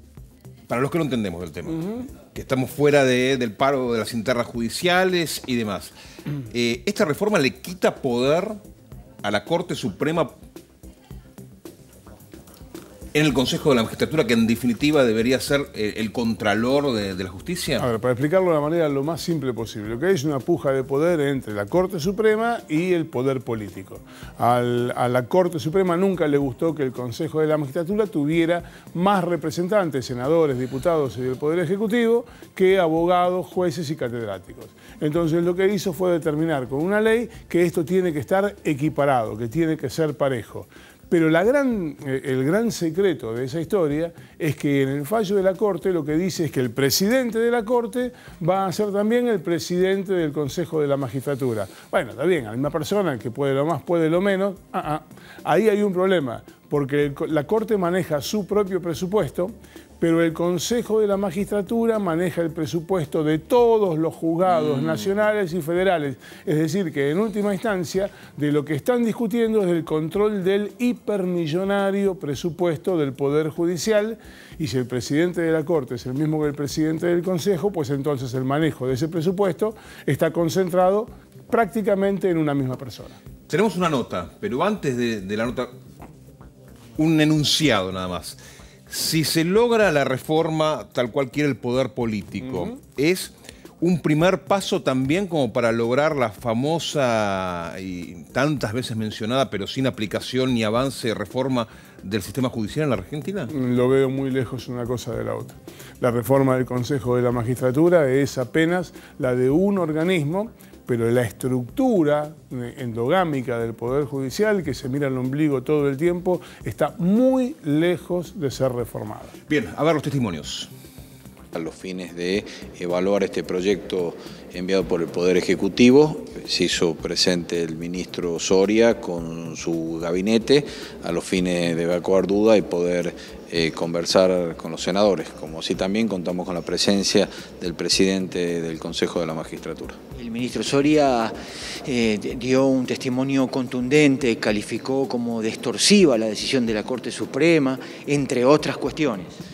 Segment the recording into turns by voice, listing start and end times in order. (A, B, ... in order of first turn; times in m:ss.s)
0:00.7-0:05.9 A
0:06.5-0:08.6 A
0:09.2-0:10.3 A
0:13.1-0:17.9 A
0:17.8-1:23.2 B
1:04.5-1:05.1 A
1:23.5-1:25.7 A
1:27.0-1:43.5 A
1:43.5-1:59.3 B
1:59.5-2:00.7 A
2:01.5-2:20.0 C
2:20.2-2:29.4 D